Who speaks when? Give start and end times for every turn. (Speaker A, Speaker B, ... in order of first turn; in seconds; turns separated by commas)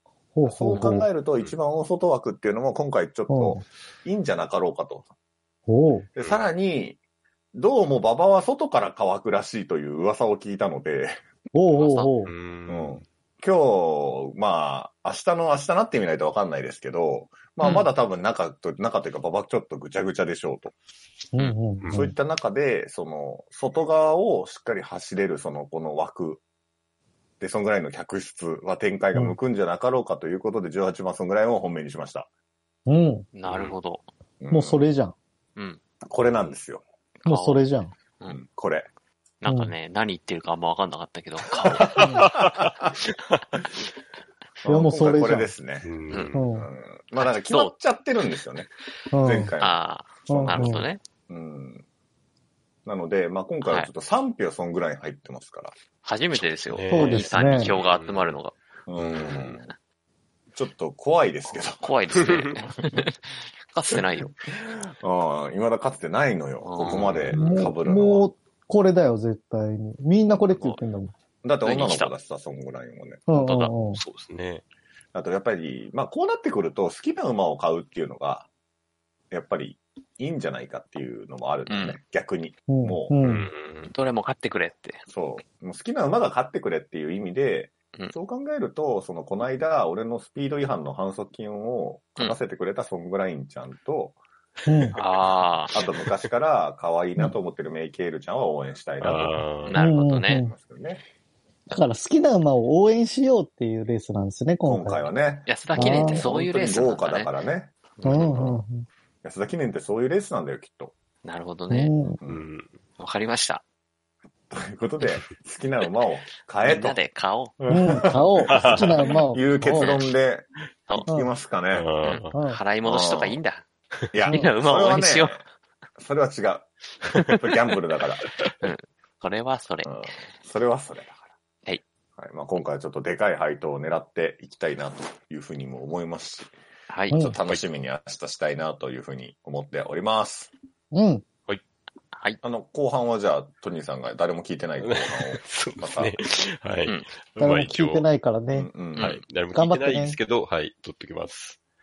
Speaker A: 0.3-1.1, Speaker B: 0.5-5.1, Speaker C: 0.7-0.9, Speaker A: 3.3-3.6, Speaker A: 5.7-6.1, Speaker B: 6.2-7.0, Speaker B: 7.5-11.2, Speaker A: 11.5-12.3, Speaker C: 11.7-12.1, Speaker D: 12.2-13.0, Speaker B: 12.7-20.7, Speaker C: 17.6-17.9, Speaker A: 21.3-22.1, Speaker D: 21.4-22.0, Speaker B: 21.9-26.4, Speaker B: 27.4-32.3, Speaker A: 32.9-33.3, Speaker C: 33.3-34.0, Speaker D: 33.5-33.8, Speaker B: 34.4-34.9, Speaker A: 34.5-35.1, Speaker B: 36.0-36.8, Speaker C: 37.2-37.6, Speaker A: 37.2-37.9, Speaker B: 38.3-38.9, Speaker C: 39.4-42.3, Speaker A: 39.5-39.7, Speaker B: 41.6-42.7, Speaker A: 42.0-42.3, Speaker D: 42.0-43.6, Speaker B: 44.6-45.9, Speaker A: 44.7-45.5, Speaker D: 45.8-46.5, Speaker C: 46.1-46.4, Speaker A: 46.3-46.7, Speaker B: 46.4-51.8, Speaker C: 47.3-47.7, Speaker A: 49.1-49.5, Speaker C: 49.6-51.0, Speaker A: 50.3-50.8, Speaker B: 52.8-55.7, Speaker C: 56.0-59.7, Speaker D: 56.3-58.3, Speaker A: 56.9-57.7, Speaker B: 58.9-59.7, Speaker B: 60.5-61.9, Speaker C: 61.5-64.4, Speaker D: 62.2-62.5, Speaker B: 63.9-68.3, Speaker C: 66.6-67.4, Speaker D: 66.9-67.6, Speaker A: 67.3-71.1, Speaker C: 70.5-70.8, Speaker B: 71.4-73.2, Speaker C: 71.6-72.1, Speaker A: 73.3-74.0, Speaker C: 73.4-73.7, Speaker D: 73.9-74.6, Speaker B: 75.1-78.5, Speaker B: 79.3-83.2, Speaker C: 81.7-82.0, Speaker A: 82.7-83.5, Speaker D: 83.2-83.9, Speaker C: 83.8-85.0, Speaker B: 85.1-94.2, Speaker A: 94.7-95.0, Speaker C: 95.0-95.7, Speaker B: 95.7-99.5, Speaker D: 99.0-99.8, Speaker C: 99.7-100.4, Speaker A: 99.8-100.5, Speaker B: 100.3-101.0, Speaker A: 101.7-105.1, Speaker B: 104.6-108.6, Speaker C: 105.5-107.3, Speaker A: 105.8-106.2, Speaker C: 108.0-108.3, Speaker A: 108.0-108.8, Speaker B: 109.2-110.9, Speaker C: 111.2-111.9, Speaker A: 111.7-112.2, Speaker D: 112.2-112.7, Speaker C: 113.0-113.6, Speaker B: 114.5-117.0, Speaker C: 116.6-117.6, Speaker B: 117.6-121.9, Speaker A: 117.7-119.9, Speaker D: 118.5-119.1, Speaker C: 119.7-120.0, Speaker D: 121.7-122.4, Speaker C: 122.0-123.6, Speaker A: 122.3-122.6, Speaker B: 122.8-123.4, Speaker B: 124.1-125.4, Speaker C: 124.3-125.4, Speaker B: 126.0-126.7, Speaker B: 127.2-128.3, Speaker C: 128.6-130.1, Speaker B: 129.8-131.2, Speaker B: 132.2-136.5, Speaker C: 136.9-137.2, Speaker B: 137.1-140.5, Speaker A: 137.1-137.4, Speaker A: 140.9-141.2, Speaker C: 142.1-142.4, Speaker B: 142.4-146.2, Speaker D: 144.8-148.1, Speaker A: 147.4-148.7, Speaker B: 148.5-149.2, Speaker C: 148.9-149.2, Speaker D: 149.0-151.6, Speaker A: 149.5-150.2